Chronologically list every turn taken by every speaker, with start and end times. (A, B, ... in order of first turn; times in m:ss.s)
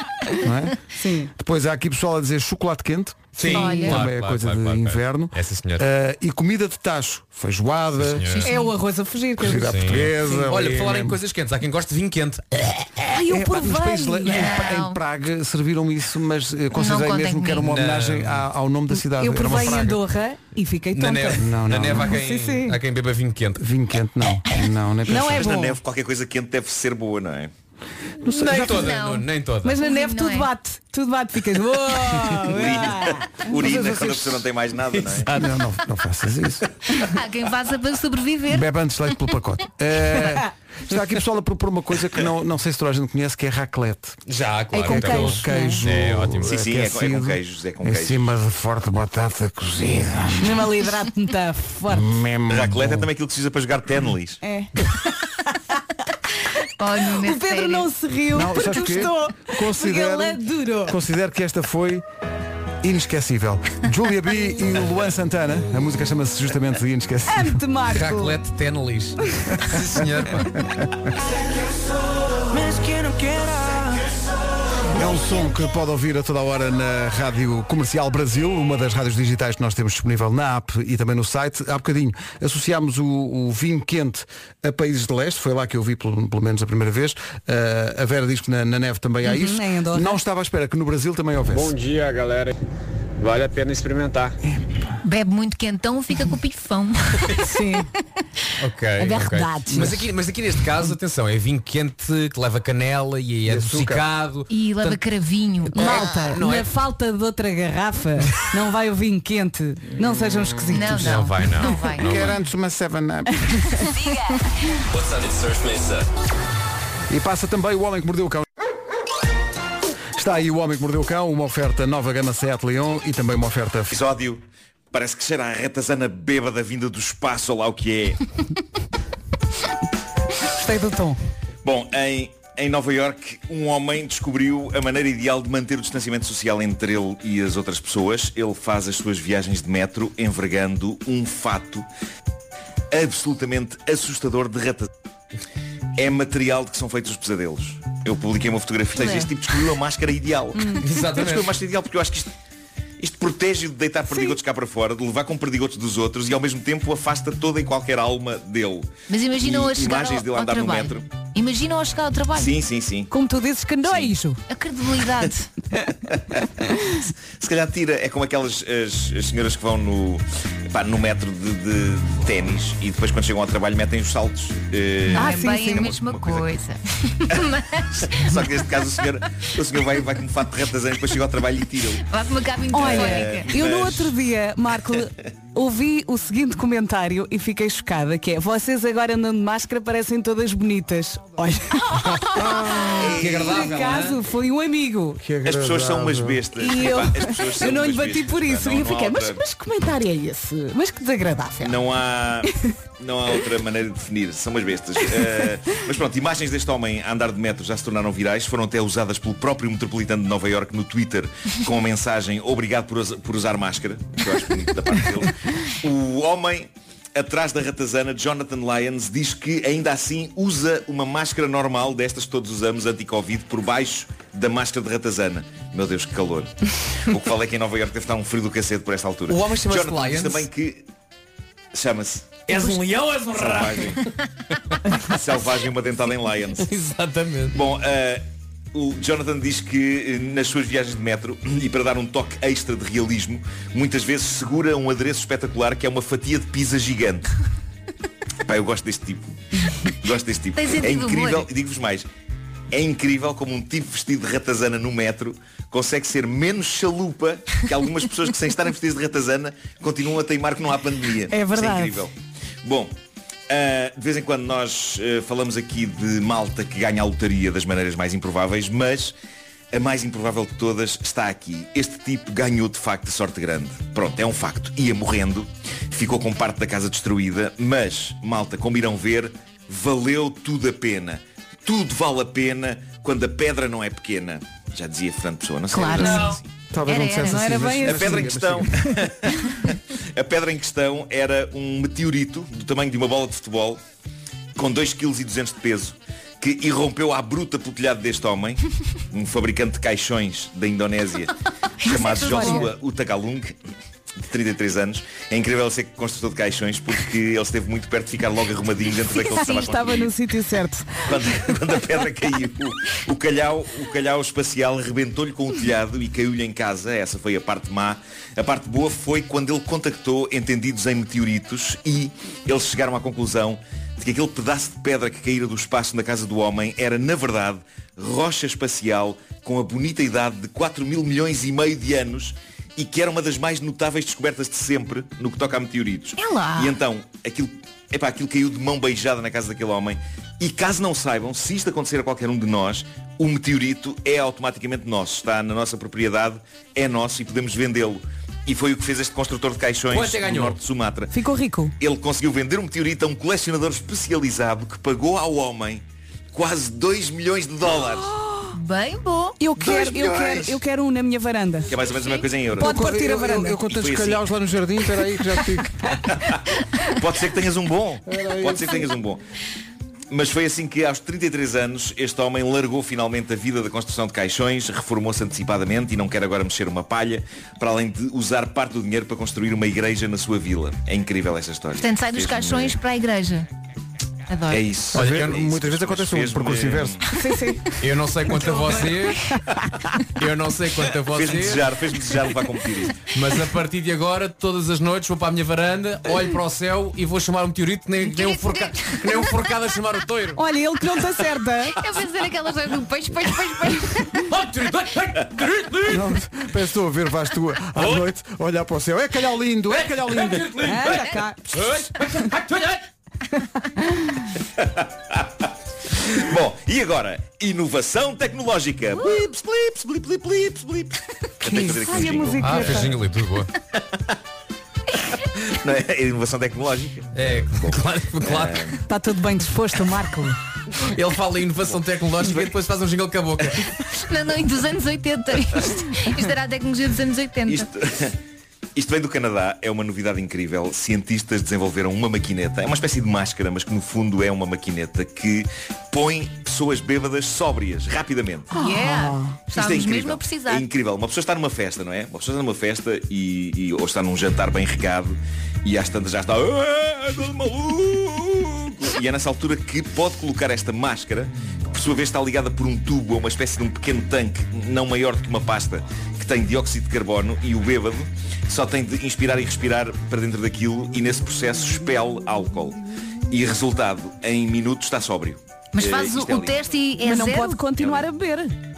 0:00.4-0:00.8 A
0:00.9-0:01.3 B
0:01.3-0:08.4 A
0:03.4-0:05.8 C
0:03.4-0:03.9 B
0:03.5-0:04.0 D
0:08.0-0:08.5 C
0:08.3-0:08.7 D
0:08.4-0:10.4 B
0:09.4-0:11.2 A
0:09.6-0:12.9 C
0:13.1-0:14.6 B
0:13.3-0:20.0 A
0:14.3-0:15.0 D
0:16.7-0:17.7 D
0:17.6-0:18.4 C
0:18.9-0:22.8 B
0:20.9-0:23.6 C
0:21.4-0:22.1 A
0:23.6-0:25.5 A
0:25.0-0:25.8 B
0:25.3-0:27.5 E
0:28.2-0:28.9 A
0:28.3-0:29.8 C
0:28.6-0:29.3 D
0:29.6-0:34.4 B
0:29.8-0:30.5 D
0:32.4-0:35.3 E
0:34.9-0:35.3 C
0:35.2-0:36.6 A
0:37.0-0:38.6 D
0:38.5-0:44.2 A
0:44.3-0:46.5 C
0:44.7-0:45.8 B
0:44.8-0:50.6 A
0:46.4-0:48.2 E
0:50.4-0:52.1 B
0:51.9-0:53.1 A
0:52.5-0:54.4 E
0:54.4-0:54.9 B
0:55.4-0:55.7 B
0:56.8-0:57.9 D
0:57.2-1:01.0 B
0:58.3-1:02.0 A
1:02.8-1:07.6 A
1:07.3-1:08.4 B
1:07.9-1:10.6 C
1:12.5-1:14.2 F
1:14.9-1:31.7 A
1:29.2-1:30.2 B
1:31.4-1:32.5 F
1:33.2-1:34.4 F
1:35.0-1:37.5 D
1:37.4-1:37.9 B
1:38.6-1:45.0 C
1:39.0-1:40.1 B
1:43.4-1:44.0 A
1:44.5-1:46.0 D
1:45.7-1:51.2 B
1:45.7-1:46.7 C
1:50.7-1:52.0 D
1:50.9-1:52.4 C
1:52.0-1:53.4 A
1:53.5-1:53.8 B
1:54.0-1:54.3 D
1:54.9-1:56.1 F
1:57.1-1:58.4 A
2:00.1-2:04.0 A
2:03.9-2:08.2 E
2:10.5-2:11.2 B
2:11.6-2:21.8 E
2:22.9-2:24.9 E
2:26.0-2:32.3 E
2:29.0-2:29.3 D
2:30.5-2:30.8 B
2:30.8-2:31.5 C
2:33.0-2:41.0 E
2:39.1-2:42.5 D
2:42.3-2:43.1 E
2:43.1-2:44.4 B
2:44.5-2:45.5 D
2:47.4-2:56.5 E
2:55.1-2:58.2 D
2:55.1-2:55.9 B
2:57.9-3:02.0 E
3:02.0-3:03.5 D
3:02.7-3:15.2 B
3:02.8-3:04.1 E
3:12.3-3:13.0 A
3:12.9-3:13.6 E
3:13.2-3:14.2 C
3:15.2-3:16.4 A
3:15.4-3:19.4 E
3:16.6-3:21.8 B
3:21.6-3:50.8 E
3:49.3-3:50.4 C
3:51.7-3:52.7 E
3:52.5-3:54.0 C
3:53.3-3:54.0 E
3:55.0-3:56.7 E
3:56.6-3:57.6 C
3:57.5-4:07.3 E
4:08.4-4:09.3 E
4:09.9-4:12.0 E
4:10.6-4:11.5 D
4:12.7-4:22.1 E
4:21.3-4:22.0 B
4:22.6-4:22.9 E
4:23.5-4:29.1 E
4:29.7-4:46.4 E
4:45.7-4:47.4 D
4:45.8-4:46.4 B
4:46.7-4:48.9 A
4:47.2-4:48.3 B
4:47.8-4:53.8 E
4:54.6-5:03.6 E
5:01.8-5:02.7 B
5:01.9-5:02.6 D
5:04.2-5:10.1 E
5:09.2-5:11.2 B
5:11.1-5:51.1 E
5:36.2-5:36.7 D
5:49.9-5:50.6 C
5:51.1-5:51.7 B
5:51.8-5:55.8 E
5:56.3-5:58.1 E
5:58.5-5:59.4 D
5:59.4-6:01.7 B
5:59.6-6:00.6 E
6:01.7-6:02.7 E
6:01.9-6:02.2 D
6:02.6-6:03.6 B
6:02.6-6:06.0 A
6:03.6-6:04.2 E
6:06.0-6:09.2 E
6:08.1-6:08.8 A
6:10.1-6:22.8 E
6:21.8-6:23.5 D
6:24.3-6:24.6 D
6:24.5-6:27.0 E
6:24.9-6:27.0 A
6:24.9-6:25.4 C
6:27.1-6:27.6 B
6:27.8-6:29.2 C
6:30.2-6:31.7 C
6:31.1-6:33.0 E
6:33.1-6:40.4 C
6:38.1-6:39.3 D
6:40.4-6:41.7 B
6:41.8-6:44.0 D
6:44.3-6:46.0 C
6:45.8-6:50.8 A
6:47.8-6:48.0 C
6:49.8-6:52.8 C
6:50.6-6:51.6 B
6:53.8-6:54.0 B
6:54.6-6:55.3 E
6:56.1-7:02.8 E
7:01.4-7:02.9 B
7:02.4-7:03.5 C
7:05.4-7:08.8 E
7:07.1-7:08.7 C
7:08.9-7:10.4 B
7:10.8-7:13.7 C
7:14.0-7:17.7 D
7:17.5-7:18.2 E
7:18.8-7:28.6 E
7:28.5-7:30.6 D
7:28.5-7:29.3 B
7:29.5-7:52.8 E
7:53.3-7:56.5 E
7:55.7-7:57.7 D
7:57.0-7:58.5 B